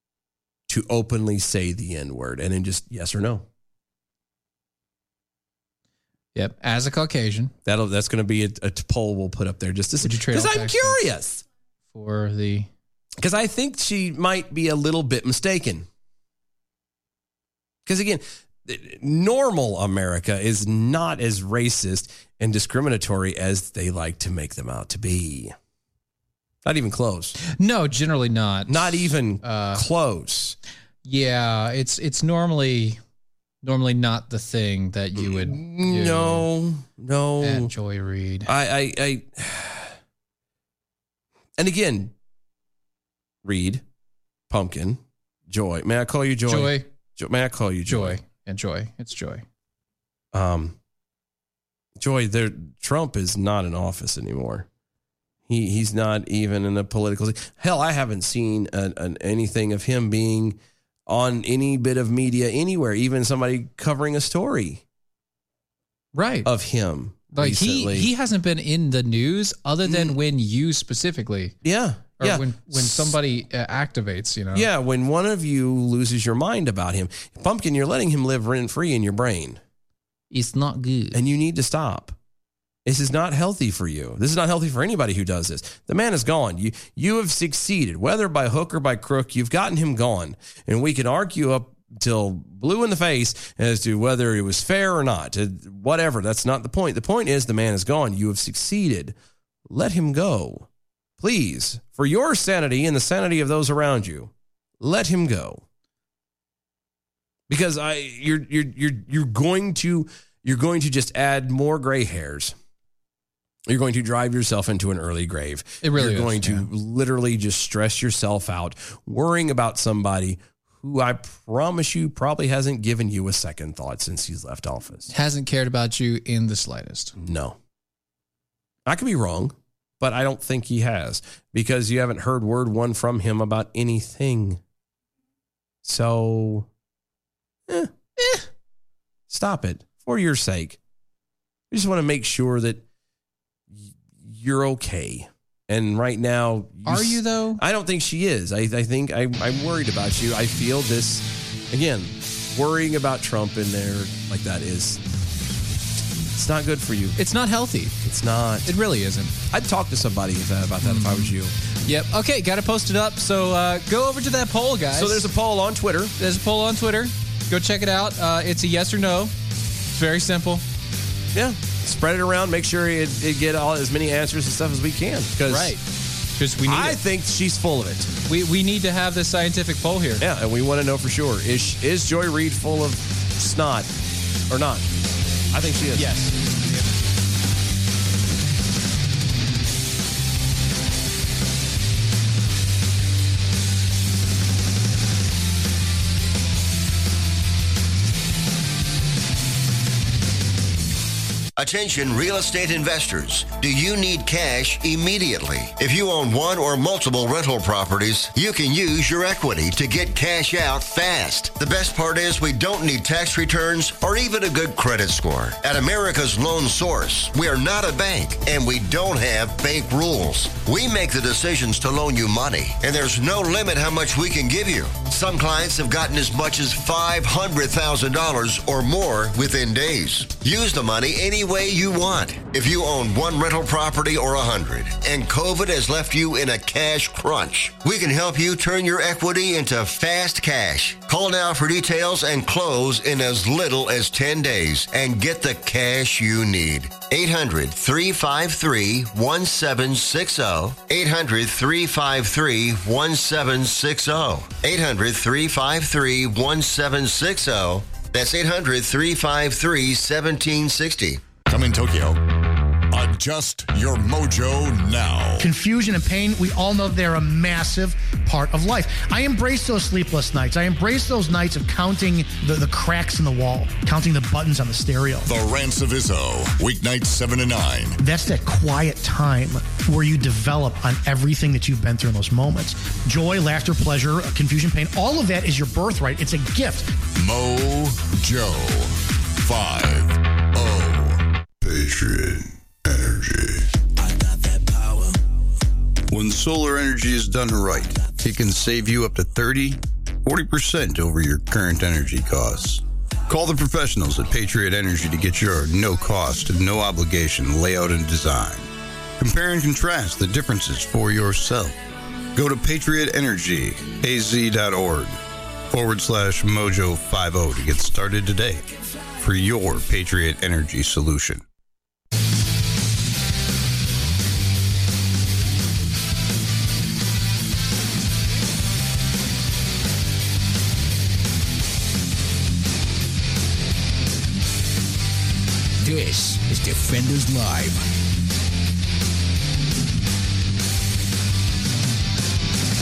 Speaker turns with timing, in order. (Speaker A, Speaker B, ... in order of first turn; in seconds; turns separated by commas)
Speaker A: 0.7-3.5, Speaker B: 6.3-7.5, Speaker A: 7.7-11.4, Speaker B: 10.0-11.1, Speaker B: 11.9-12.7, Speaker A: 13.2-15.9, Speaker A: 17.9-25.6, Speaker A: 26.6-27.4, Speaker B: 27.4-29.9, Speaker A: 28.7-30.6, Speaker B: 31.1-33.0, Speaker B: 33.6-36.5, Speaker A: 35.2-37.7, Speaker B: 37.4-38.5, Speaker A: 38.5-40.0, Speaker A: 41.6-42.1, Speaker A: 43.4-43.8, Speaker A: 44.5-48.2, Speaker B: 46.5-46.9, Speaker B: 47.9-49.4, Speaker A: 50.3-50.8, Speaker A: 52.0-54.7, Speaker A: 55.5-64.8, Speaker B: 66.1-66.5, Speaker A: 66.5-68.1, Speaker B: 67.3-71.5, Speaker A: 69.8-70.2, Speaker A: 71.6-73.2, Speaker B: 72.2-74.7, Speaker A: 74.5-79.6, Speaker B: 80.3-81.2, Speaker A: 81.1-82.2, Speaker A: 82.8-99.2, Speaker A: 99.7-100.7, Speaker A: 101.2-105.6, Speaker A: 107.5-112.6, Speaker A: 113.7-125.1, Speaker B: 115.8-116.7, Speaker B: 125.1-127.2, Speaker A: 127.2-127.6, Speaker A: 128.9-134.6, Speaker A: 135.8-136.7, Speaker B: 138.2-138.4, Speaker A: 139.3-140.8, Speaker A: 141.7-142.8, Speaker A: 143.7-155.0, Speaker B: 146.9-147.6, Speaker A: 156.3-157.2, Speaker B: 157.2-158.0, Speaker A: 158.0-158.7, Speaker B: 158.7-159.3, Speaker A: 159.5-161.5, Speaker B: 160.8-161.3, Speaker B: 161.9-165.3, Speaker A: 164.9-166.2, Speaker B: 166.2-169.3, Speaker B: 169.9-170.6, Speaker A: 171.3-175.8, Speaker B: 175.5-175.8, Speaker B: 176.4-177.0, Speaker A: 176.7-178.2, Speaker B: 178.2-180.2, Speaker A: 180.2-183.9, Speaker A: 184.5-184.9, Speaker A: 185.5-186.2, Speaker B: 186.0-186.8, Speaker C: 201.6-261.3, Speaker D: 261.5-262.2, Speaker D: 262.9-265.5, Speaker E: 265.4-275.3, Speaker D: 275.3-278.0, Speaker E: 278.0-286.9, Speaker D: 287.1-291.2, Speaker F: 291.6-293.5, Speaker F: 296.1-308.7, Speaker F: 309.2-311.8, Speaker F: 312.4-315.2, Speaker F: 315.7-318.6, Speaker F: 319.2-321.4, Speaker G: 335.8-337.9